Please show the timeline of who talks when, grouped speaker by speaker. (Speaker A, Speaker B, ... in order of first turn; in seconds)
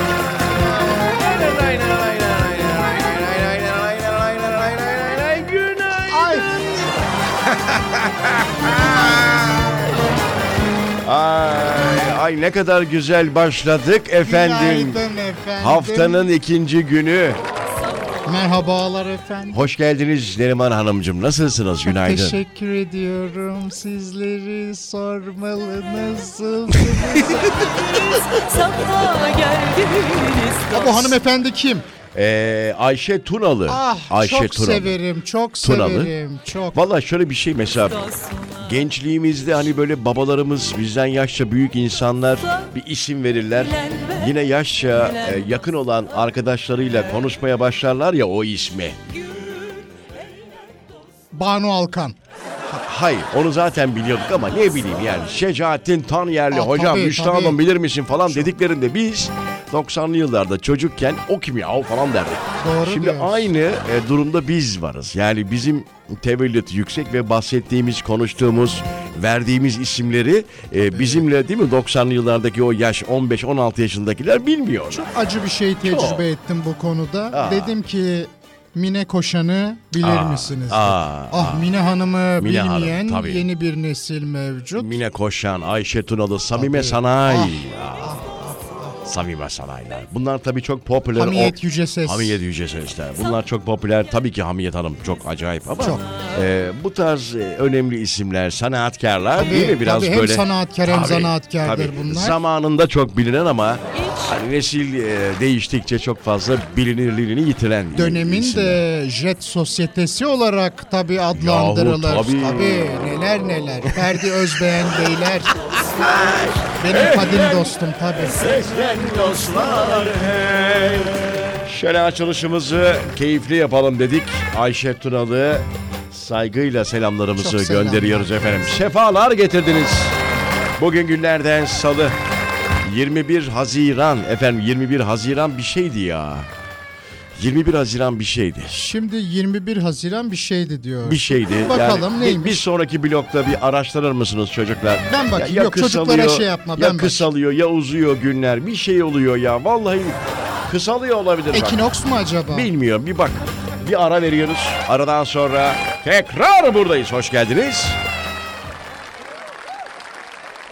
Speaker A: 0.9-6.9, 7.4-9.9, 11.0-15.0, 15.6-17.4, 19.5-22.4, 26.9-28.6, 32.1-35.0, 35.6-36.1, 36.7-49.0, 52.6-75.1, 75.8-76.2, 77.3-77.7, 80.0-81.7, 82.4-83.5, 84.7-88.1, 89.0-108.8, 111.3-113.1, 115.8-130.2, 130.8-132.2, 132.8-136.5, 137.3-138.8, 141.0-151.8, 152.5-158.0
Speaker B: 6.1-6.5, 14.2-16.3, 18.2-19.6, 21.9-27.9, 30.7-31.8, 33.7-36.8, 51.3-52.2, 56.5-57.6, 62.6-63.5, 70.9-71.2, 74.9-85.0, 86.5-89.0, 91.2-92.4, 99.4-102.3, 107.9-115.5, 116.8-118.5, 127.4-128.8, 138.7-142.6, 145.1-147.3, 151.5-152.7
Speaker C: 28.5-30.7